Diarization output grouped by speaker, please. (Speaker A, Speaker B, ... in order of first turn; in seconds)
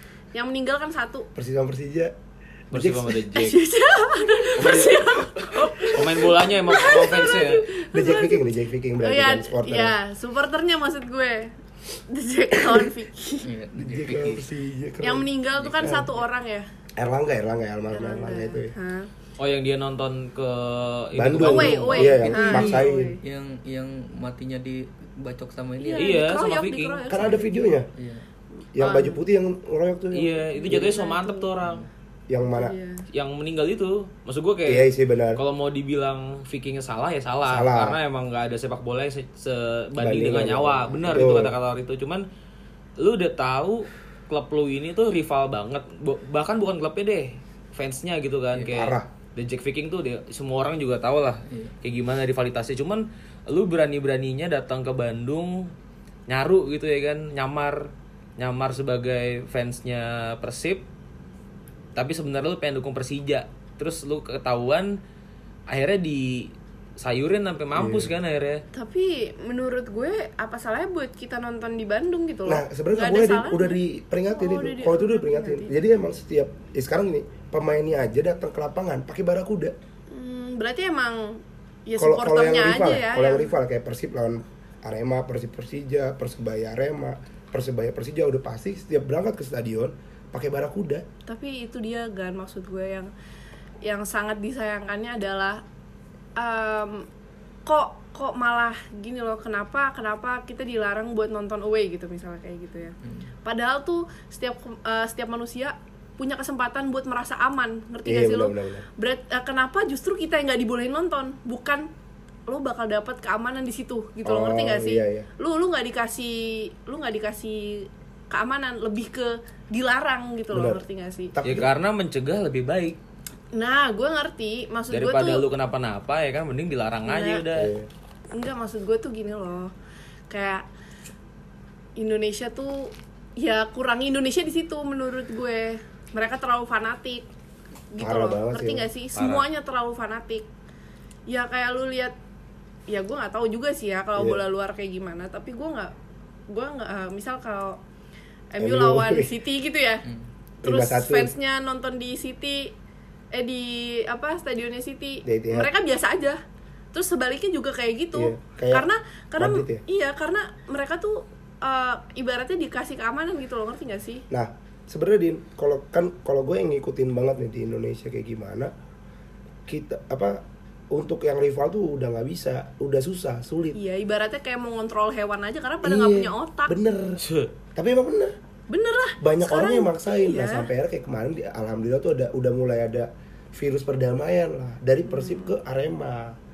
Speaker A: 0.3-1.3, 3.4-8.4, 9.0-11.5, 12.1-13.4, 15.0-16.7, 17.9-19.1, 21.4-23.2, 25.8-27.7, 28.8-29.2, 30.5-31.5, 32.5-33.0, 68.7-73.8, 74.3-75.7, 80.1-83.5, 91.3-93.1, 93.8-95.6, 96.4-97.1, 97.7-111.9, 112.5-121.3, 123.5-125.4, 127.1-127.4, 128.3-129.7, 130.3-130.7, 132.0-137.3, 137.9-140.5, 141.3-142.2, 142.9-145.9, 146.5-147.8, 148.5-150.1, 150.6-152.7, 153.3-156.4, 156.9-164.2, 173.7-176.8, 178.7-180.7, 185.1-185.5
Speaker B: 1.4-2.1, 2.7-3.2, 7.9-10.0, 13.8-15.3, 15.8-16.1, 17.0-18.7, 21.1-23.1, 27.1-27.9, 28.8-31.0, 32.3-32.8, 34.7-35.4, 37.5-38.0, 40.0-41.6, 48.7-49.1, 67.8-68.1, 72.5-79.8, 82.0-91.0, 108.0-108.8, 114.2-115.3, 120.5-120.8, 121.3-121.7, 127.5-127.9, 138.0-138.9, 144.2-144.4, 148.6-149.3, 150.6-151.3, 155.2-155.7, 158.1-159.8, 164.3-168.7, 169.7-173.8, 175.8-177.2, 177.8-178.3, 179.2-186.4
Speaker C: 2.7-3.6, 4.6-5.1, 5.7-7.7, 19.4-22.2, 26.0-27.0, 30.1-31.8, 33.1-42.2, 43.0-55.7, 56.3-60.8, 62.0-65.0, 65.7-68.6, 121.4-123.0, 124.9-127.7, 139.2-139.4, 177.2-177.5
Speaker D: 13.4-14.4, 15.6-16.1, 22.2-26.2, 27.9-28.2, 31.6-31.9, 48.5-48.8, 51.5-51.7